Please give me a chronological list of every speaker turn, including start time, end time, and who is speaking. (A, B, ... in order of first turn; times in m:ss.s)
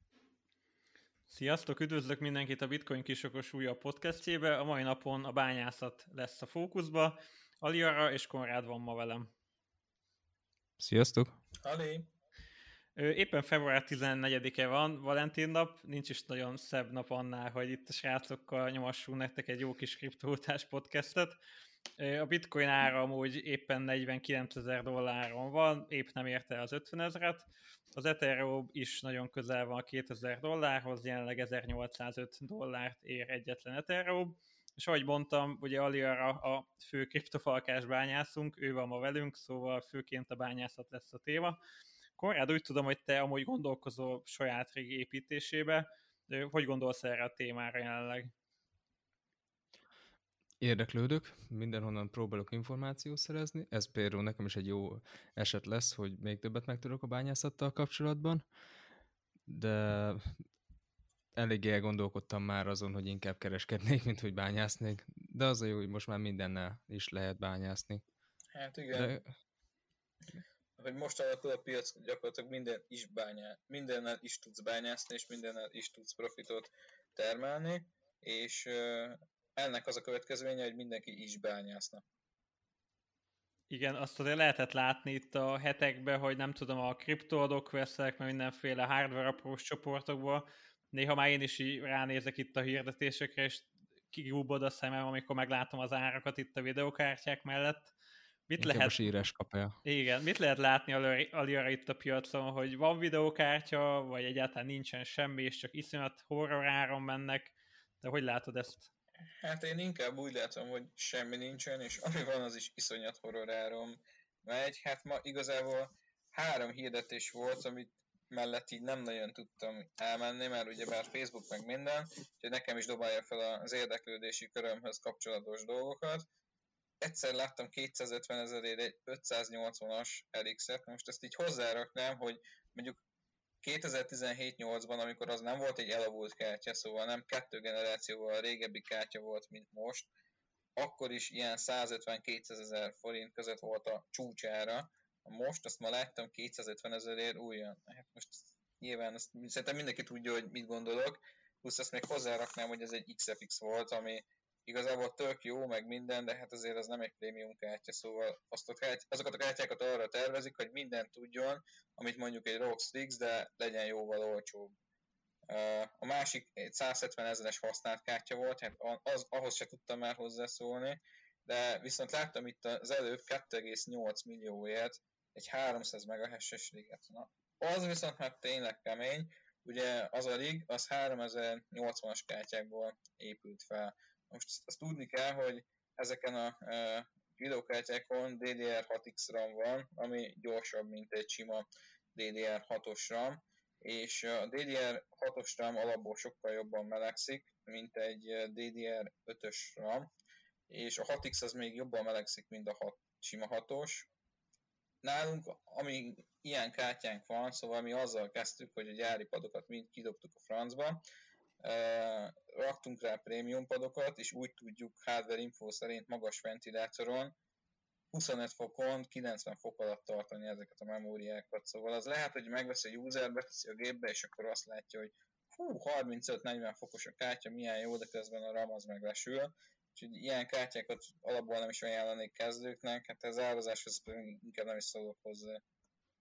0:01.3-0:09.3 A
0:10.8-0:11.4 B
0:11.6-0:12.1 C
0:13.0-0:21.4 A
0:22.0-0:41.6 A
0:42.2-0:48.3 A
0:50.6-0:58.5 B
0:59.5-1:00.4 B
1:01.3-1:08.0 B
1:08.5-1:09.2 C
1:08.9-1:09.3 B
1:10.8-1:22.0 C
1:23.7-1:37.9 A
1:38.5-1:39.0 A
1:38.6-1:39.8 B
1:39.8-1:48.9 A
1:49.4-2:06.3 C
2:07.0-2:13.0 C
2:13.6-2:20.1 C
2:20.8-2:44.7 C
2:45.5-3:20.1 C
3:20.7-3:24.1 C
3:25.0-3:31.0 C
3:31.6-3:37.3 C
3:38.1-3:55.6 C